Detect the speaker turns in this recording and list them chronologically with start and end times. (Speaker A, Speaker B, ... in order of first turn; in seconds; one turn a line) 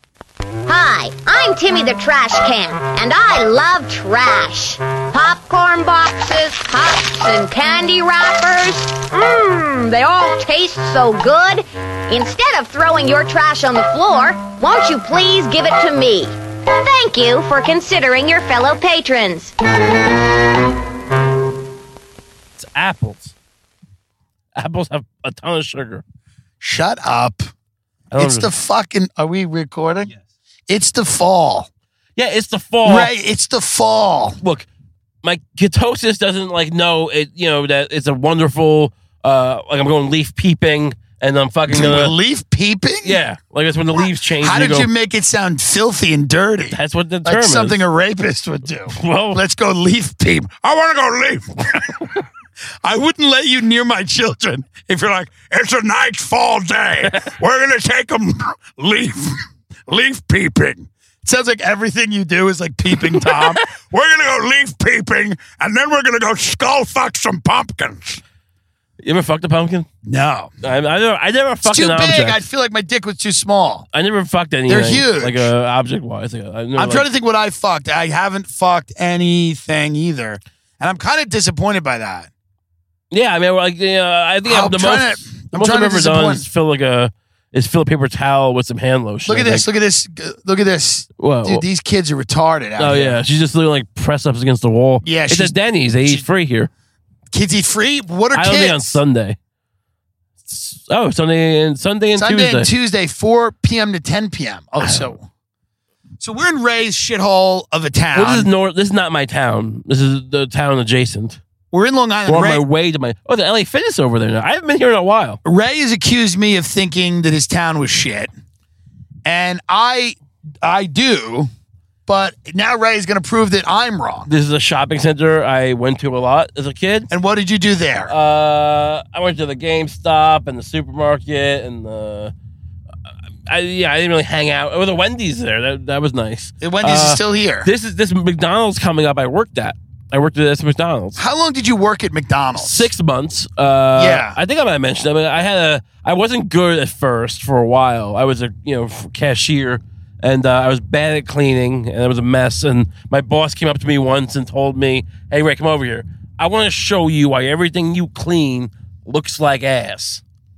Speaker A: 0.7-19.5
Speaker B: 22.6-23.3
Speaker B: 24.5-26.0
Speaker C: 26.6-27.4
Speaker B: 28.1-28.5
Speaker C: 28.2-30.1
Speaker C: 30.7-31.7
Speaker B: 32.1-33.1
Speaker C: 32.8-34.4
Speaker B: 34.4-34.7
Speaker B: 35.2-42.1
Speaker C: 41.7-43.2
Speaker B: 43.0-44.9
Speaker C: 44.4-52.1
Speaker B: 46.7-47.8
Speaker B: 48.9-49.4
Speaker C: 52.8-68.2
Speaker B: 57.0-57.3
Speaker B: 69.0-69.9
Speaker C: 70.0-70.5
Speaker B: 70.6-72.4
Speaker C: 71.6-73.8
Speaker B: 73.9-77.1
Speaker C: 74.7-75.5
Speaker C: 76.8-82.3
Speaker B: 83.1-89.7
Speaker C: 84.4-86.4
Speaker C: 89.2-93.2
Speaker B: 91.2-91.6
Speaker B: 92.8-96.7
Speaker C: 95.0-96.2
Speaker C: 97.3-99.0
Speaker B: 98.3-99.4
Speaker B: 100.4-102.7
Speaker C: 102.2-105.3
Speaker B: 104.8-105.1
Speaker C: 106.2-108.5
Speaker B: 108.1-111.4
Speaker C: 111.7-112.6
Speaker B: 112.3-115.4
Speaker C: 115.4-118.3
Speaker C: 119.2-121.5
Speaker C: 122.1-124.3
Speaker B: 124.3-127.1
Speaker C: 127.1-128.1
Speaker B: 128.1-132.3
Speaker B: 133.5-141.2
Speaker C: 136.6-137.7
Speaker C: 141.2-142.9
Speaker B: 142.5-160.2
Speaker C: 143.9-144.4